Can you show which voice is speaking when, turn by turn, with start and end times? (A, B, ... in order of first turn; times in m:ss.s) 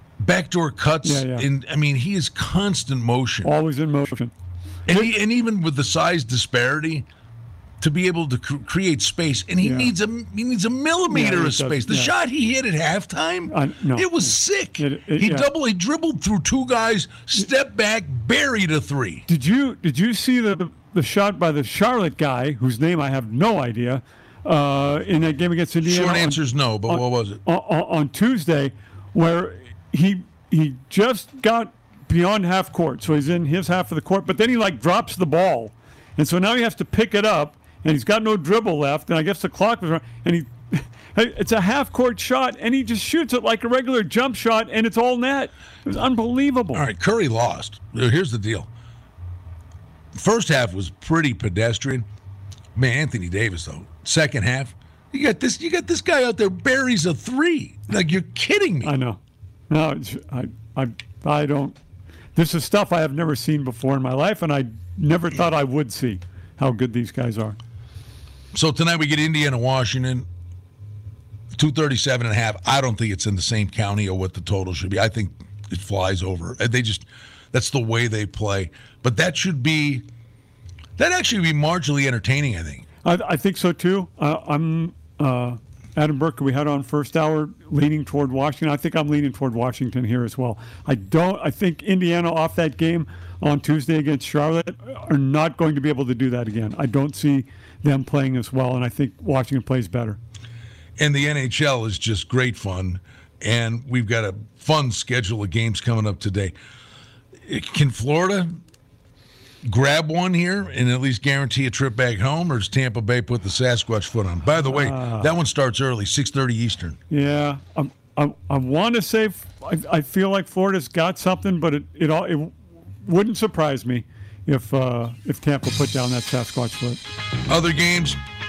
0:00.2-0:03.5 A
0:01.0-0:01.4 B
0:03.4-0:04.3 B
0:04.9-0:07.0 A
0:07.8-0:19.2 A
0:09.6-0:09.9 B
0:11.1-0:12.1 B
0:13.5-0:15.5 B
0:19.3-0:46.8 B
0:25.8-0:27.4 A
0:46.7-0:48.7 A
0:50.1-0:52.0 A
0:52.7-0:58.9 A
0:58.8-1:01.8 B
1:02.3-1:07.6 B
1:08.5-1:10.3 A
1:11.5-1:20.0 A
1:21.0-1:22.8 A
1:23.0-1:40.2 B
1:41.0-1:46.5 A
1:47.4-1:48.6 A
1:49.6-1:57.0 A
1:54.6-1:55.3 B
1:57.1-2:07.0 B
2:07.5-2:08.2 A